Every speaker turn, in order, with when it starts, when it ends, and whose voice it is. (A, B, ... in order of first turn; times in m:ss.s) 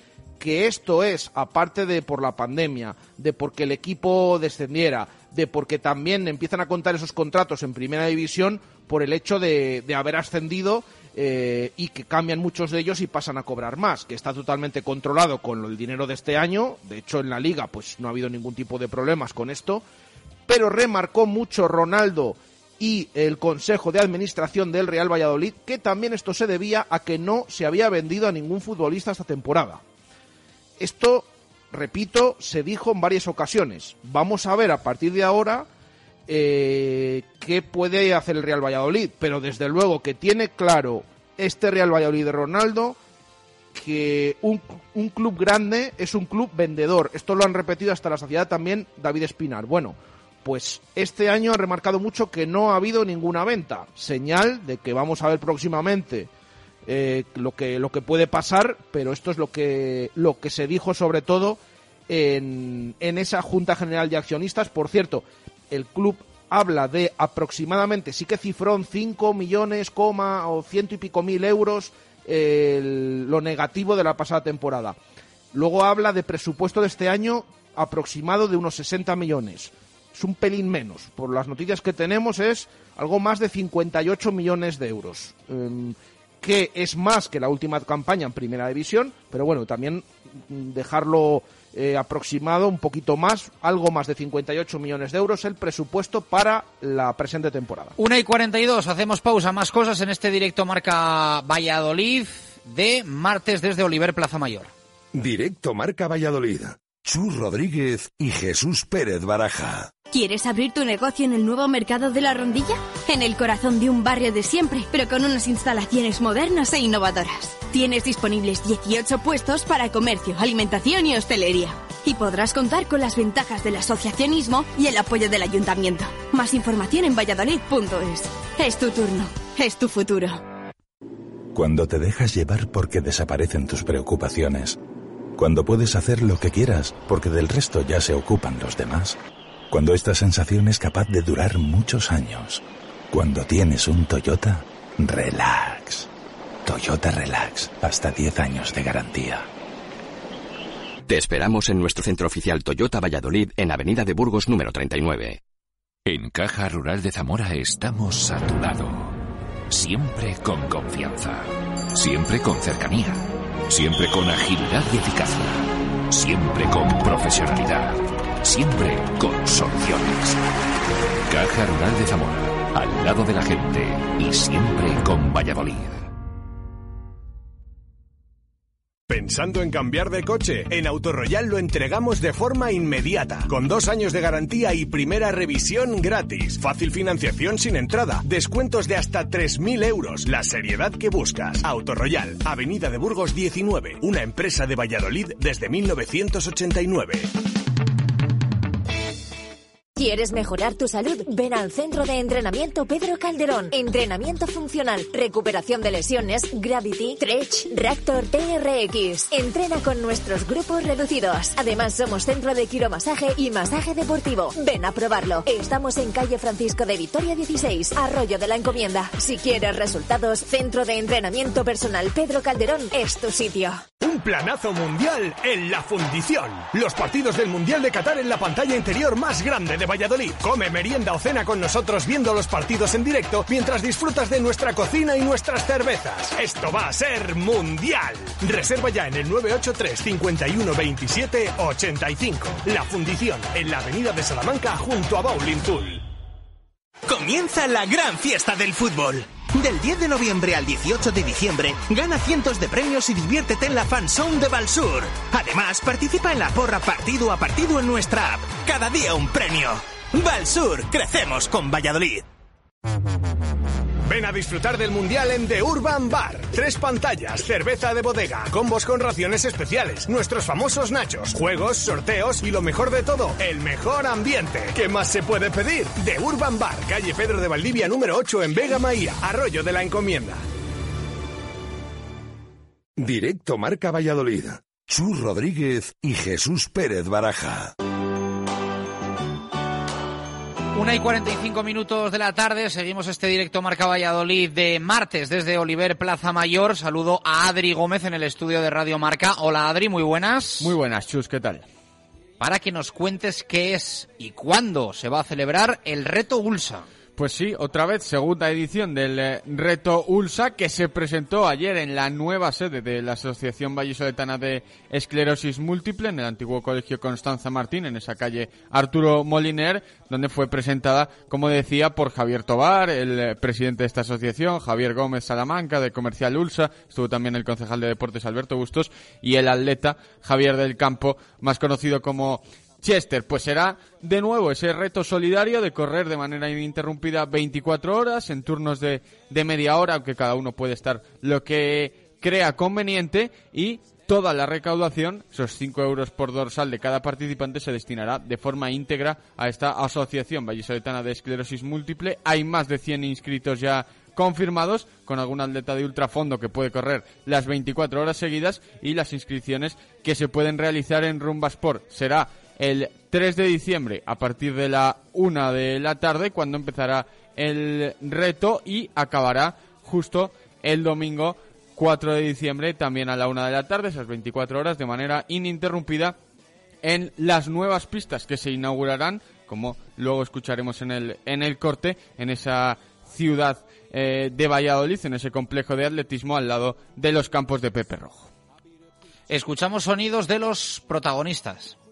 0:00.4-0:19.8 A
0:20.5-0:29.8 A
0:30.8-0:35.7 A
0:36.3-0:43.0 A
0:43.7-0:56.3 A
0:56.8-1:15.0 A
1:15.5-1:37.9 A
1:38.0-1:44.7 B
1:45.1-1:49.9 C
1:50.1-2:10.4 D
2:11.5-2:14.8 E
2:15.4-2:19.2 E
2:19.7-2:26.1 E
2:26.6-2:29.4 E
2:31.1-2:35.4 F
2:36.1-2:39.1 G
2:39.7-2:50.4 G
2:51.3-2:56.1 G
2:59.1-3:17.3 H
3:20.0-3:43.8 I
3:44.0-4:06.0 H
4:07.1-4:22.2 J
4:24.0-4:40.4 H
4:43.0-4:47.7 C
4:50.7-5:00.7 B
5:00.6-5:01.6 K
5:02.4-5:06.9 B
5:07.2-6:16.2 K
6:16.8-6:28.3 K
6:29.3-6:31.8 B